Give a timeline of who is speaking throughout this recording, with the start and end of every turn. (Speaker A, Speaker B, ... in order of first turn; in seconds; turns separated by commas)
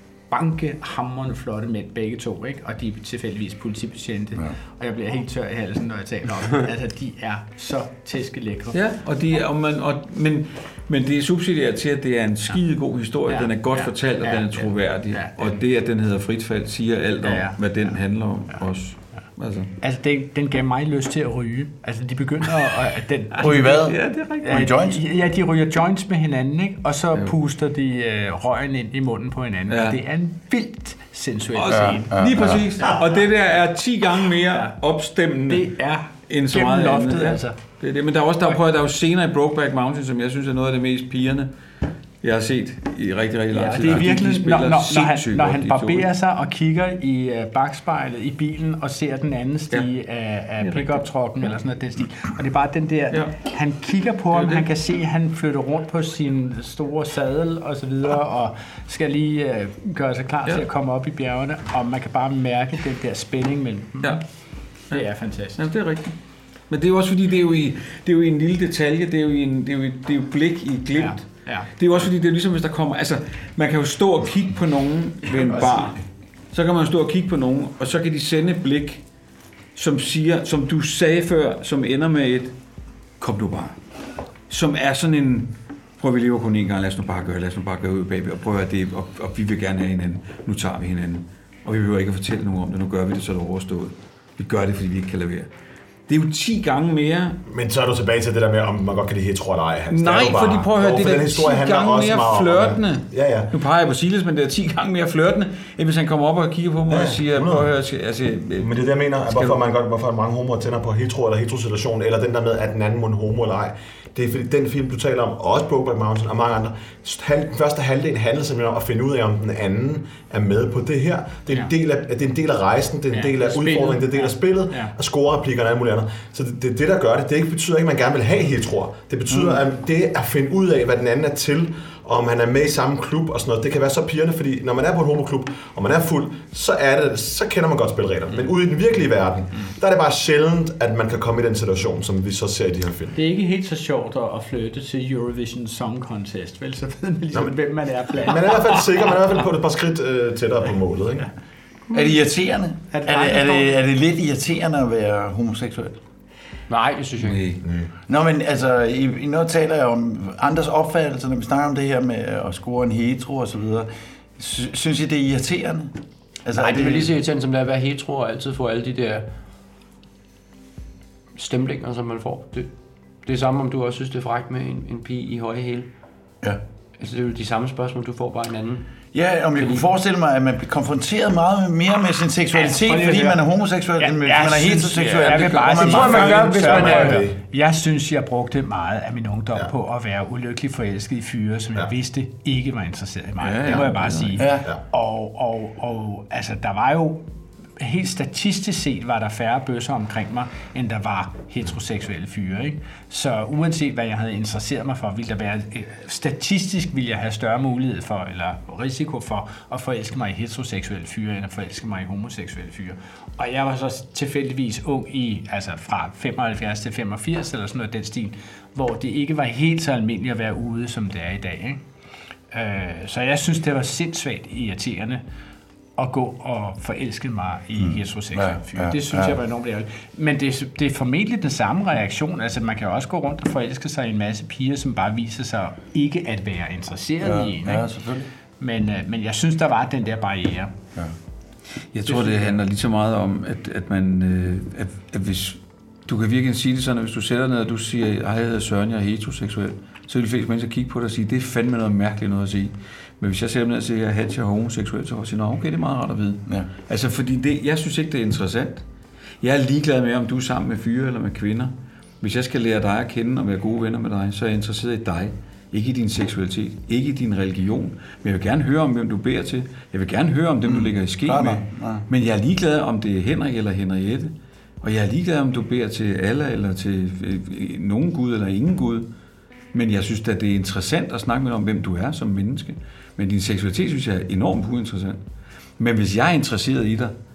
Speaker A: 0.3-8.8, Speaker B: 8.7-19.7, Speaker A: 13.3-15.5, Speaker A: 17.2-18.0, Speaker A: 19.8-32.2, Speaker C: 23.4-25.0, Speaker B: 23.8-24.5, Speaker B: 29.7-30.0, Speaker B: 31.5-35.7, Speaker C: 31.7-32.6, Speaker A: 34.5-34.7, Speaker A: 35.5-37.6, Speaker B: 36.3-41.5, Speaker B: 42.2-46.1, Speaker A: 43.5-64.2, Speaker B: 50.6-51.0, Speaker B: 54.3-54.7, Speaker B: 64.9-66.2, Speaker A: 64.9-65.6, Speaker B: 66.7-76.0, Speaker A: 70.9-71.7, Speaker C: 75.5-75.8, Speaker B: 76.5-79.0, Speaker B: 79.8-82.5, Speaker B: 83.2-83.8, Speaker B: 84.5-95.5, Speaker B: 96.1-97.4, Speaker D: 97.5-103.5, Speaker B: 99.9-108.8, Speaker D: 106.9-107.7, Speaker D: 108.6-143.2, Speaker B: 109.3-109.6, Speaker A: 123.1-124.9, Speaker A: 143.2-149.2, Speaker D: 148.1-151.3, Speaker C: 151.9-156.0, Speaker A: 152.9-153.8, Speaker E: 156.7-157.5, Speaker B: 157.2-157.6, Speaker D: 157.6-157.9, Speaker C: 158.1-165.9, Speaker C: 166.5-167.1, Speaker E: 166.5-169.3, Speaker E: 171.4-172.7, Speaker E: 173.2-175.9, Speaker E: 177.0-178.9, Speaker C: 179.1-186.5, Speaker E: 179.6-179.9, Speaker A: 182.5-183.4, Speaker A: 184.0-197.2, Speaker B: 185.3-185.6, Speaker E: 185.6-187.3, Speaker D: 186.0-187.4, Speaker B: 193.4-194.4, Speaker C: 194.4-194.7, Speaker A: 197.8-221.8, Speaker A: 222.5-225.2, Speaker A: 226.0-237.9, Speaker C: 227.8-229.4, Speaker C: 237.2-238.3, Speaker A: 238.6-240.7, Speaker B: 241.9-258.8, Speaker A: 242.1-242.6, Speaker B: 259.4-279.1, Speaker C: 270.6-272.1, Speaker B: 279.7-285.2, Speaker B: 285.8-287.1